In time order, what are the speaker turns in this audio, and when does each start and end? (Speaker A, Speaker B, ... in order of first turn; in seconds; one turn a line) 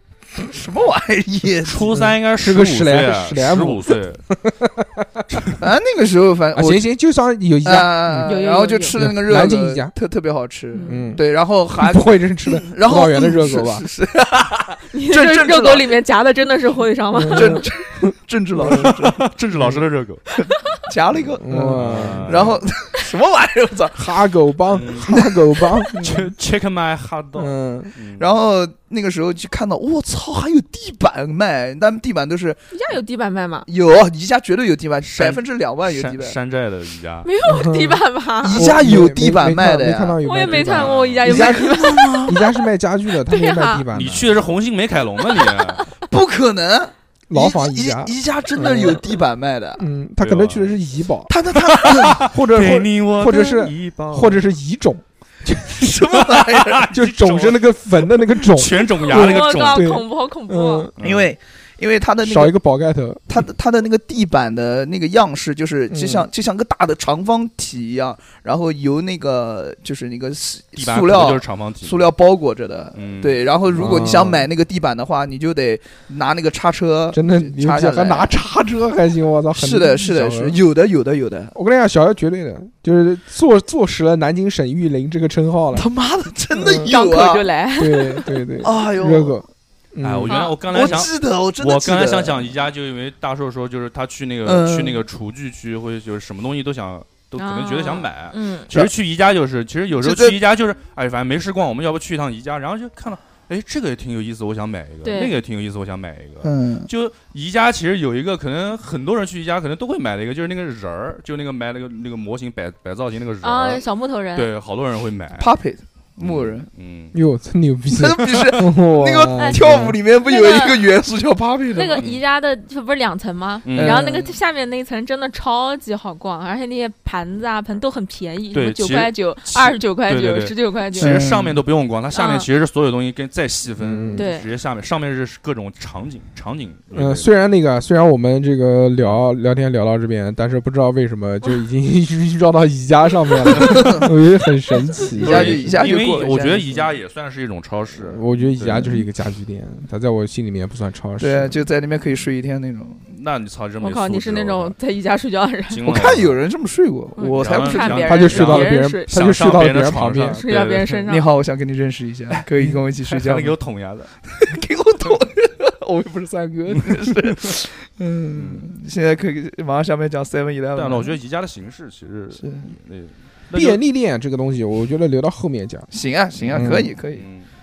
Speaker A: 0.4-1.9
Speaker B: 1.6-4.2
Speaker C: 1.9-5.5
Speaker A: 5.6-6.9
Speaker C: 6.5-8.4
Speaker A: 7.6-15.9
Speaker D: 8.2-9.0
Speaker C: 8.9-9.9
Speaker D: 10.7-11.2
Speaker C: 10.8-13.8
Speaker D: 14.9-17.6
Speaker C: 17.1-18.9
Speaker A: 17.3-19.3
Speaker B: 18.6-20.2
Speaker A: 20.3-24.1
Speaker C: 21.4-22.5
Speaker B: 21.7-22.6
Speaker C: 23.9-26.0
Speaker B: 24.7-25.2
Speaker A: 25.1-26.3
Speaker B: 26.0-28.3
Speaker C: 27.3-27.9
Speaker A: 28.2-32.7
Speaker D: 32.7-33.7
Speaker A: 33.7-36.4
Speaker B: 35.0-37.3
Speaker D: 37.2-38.7
Speaker C: 37.4-44.5
Speaker A: 38.4-40.2
Speaker D: 40.2-42.6
Speaker B: 40.3-41.5
Speaker A: 41.2-42.4
Speaker D: 43.2-43.8
Speaker B: 43.9-45.9
Speaker D: 45.2-45.9
Speaker A: 46.1-49.8
Speaker C: 47.3-49.1
Speaker C: 49.8-51.3
Speaker B: 50.2-50.7
Speaker A: 51.3-52.2
Speaker B: 51.6-54.4
Speaker C: 52.2-56.0
Speaker A: 55.7-56.9
Speaker B: 56.2-60.0
Speaker C: 56.9-60.9
Speaker D: 59.0-60.9
Speaker B: 61.0-61.3
Speaker A: 61.0-62.5
Speaker C: 62.2-63.2
Speaker A: 63.3-78.4
Speaker C: 65.9-66.2
Speaker B: 70.8-72.0
Speaker B: 72.9-73.4
Speaker C: 73.7-74.5
Speaker C: 77.1-80.5
Speaker A: 79.5-81.5
Speaker C: 81.5-85.9
Speaker A: 85.7-87.5
Speaker C: 86.5-86.9
Speaker D: 86.8-88.4
Speaker C: 87.8-90.4
Speaker A: 88.6-89.4
Speaker B: 90.0-115.5
Speaker D: 90.2-91.0
Speaker A: 90.7-92.5
Speaker A: 94.4-95.0
Speaker D: 97.3-98.7
Speaker A: 99.9-100.4
Speaker D: 105.0-105.3
Speaker A: 106.4-106.9
Speaker D: 113.4-114.5
Speaker A: 115.4-116.7
Speaker B: 116.2-117.1
Speaker C: 117.1-119.9
Speaker A: 117.9-122.0
Speaker D: 119.3-120.9
Speaker D: 121.7-131.2
Speaker B: 122.0-122.2
Speaker B: 123.6-124.2
Speaker A: 123.7-124.3
Speaker B: 128.5-137.3
Speaker A: 130.9-131.6
Speaker D: 132.1-132.5
Speaker C: 133.8-134.3
Speaker D: 134.1-134.5
Speaker C: 136.9-145.8
Speaker A: 143.5-144.1
Speaker D: 144.7-145.1
Speaker B: 145.2-149.0
Speaker A: 145.2-146.9
Speaker C: 148.0-151.6
Speaker A: 151.2-153.0
Speaker B: 153.1-154.8
Speaker D: 153.8-156.0
Speaker B: 155.7-156.3
Speaker A: 155.8-158.1
Speaker D: 157.2-159.1
Speaker B: 157.3-161.1
Speaker C: 158.0-160.4
Speaker D: 160.3-161.3
Speaker A: 161.1-163.6
Speaker B: 163.0-164.1
Speaker A: 164.3-171.1
Speaker B: 168.4-168.7
Speaker B: 170.7-173.8
Speaker A: 172.4-172.7
Speaker C: 173.5-175.9
Speaker A: 175.9-177.2
Speaker C: 176.5-176.9
Speaker B: 177.1-177.5